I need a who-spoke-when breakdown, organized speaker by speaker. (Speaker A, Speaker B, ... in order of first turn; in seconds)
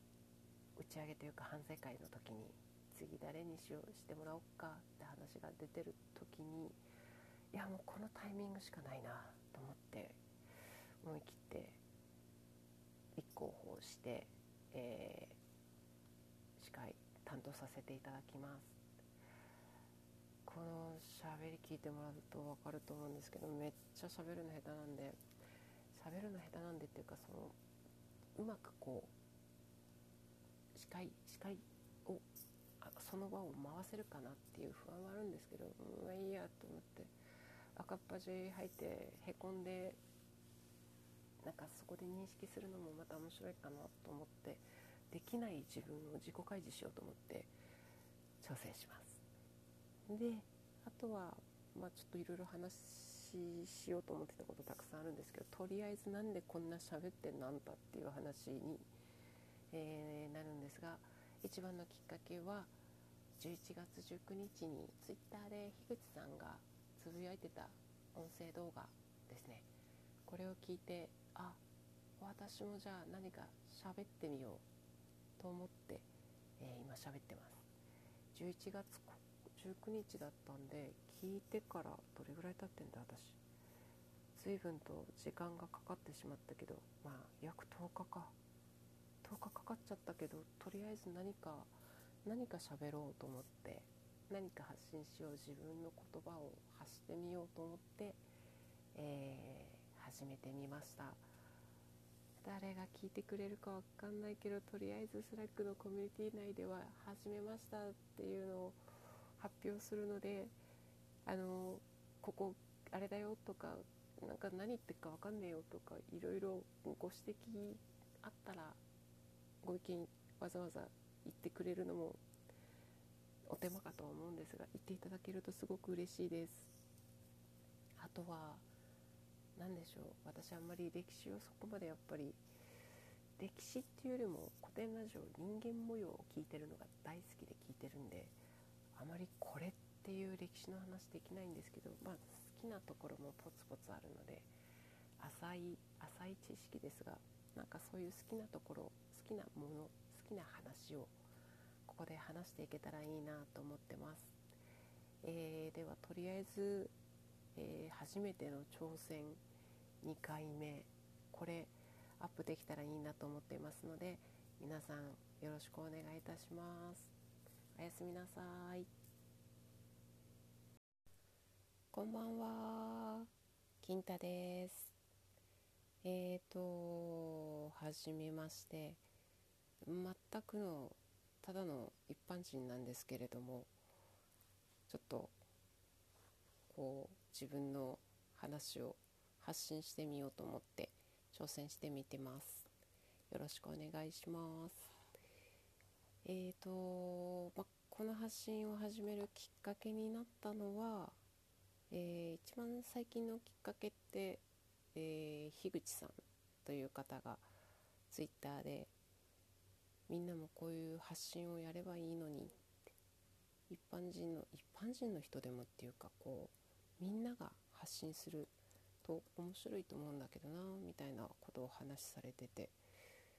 Speaker A: 0.8-6.8, 7.5-10.2, 11.0-11.8, 13.2-15.4, 16.6-18.8, 20.5-25.2, 25.9-27.6, 28.4-29.1, 30.8-32.3, 32.8-37.1, 37.8-40.0, 41.4-47.5, 48.4-49.2, 50.1-58.9, 59.7-62.7, 63.4-69.7, 70.3-71.6, 72.2-74.6, 75.4-77.7, 78.3-83.4, 84.3-88.4, 89.2-98.2, 98.9-101.3, 102.4-110.5, 111.2-118.8, 119.6-122.2, 123.5-126.7, 128.0-128.7, 129.6-132.4, 133.4-138.4, 138.9-144.5, 145.2-151.2, 151.9-154.4, 155.2-156.9, 157.6-159.4, 160.0-167.1, 167.8-168.9, 171.9-174.9, 176.0-179.0, 179.8-183.7, 184.9-185.3, 186.7-192.7, 193.3-194.9, 196.2-201.2, 201.9-207.5, 208.1-208.9, 210.1-212.9, 213.7-218.5, 219.0-222.8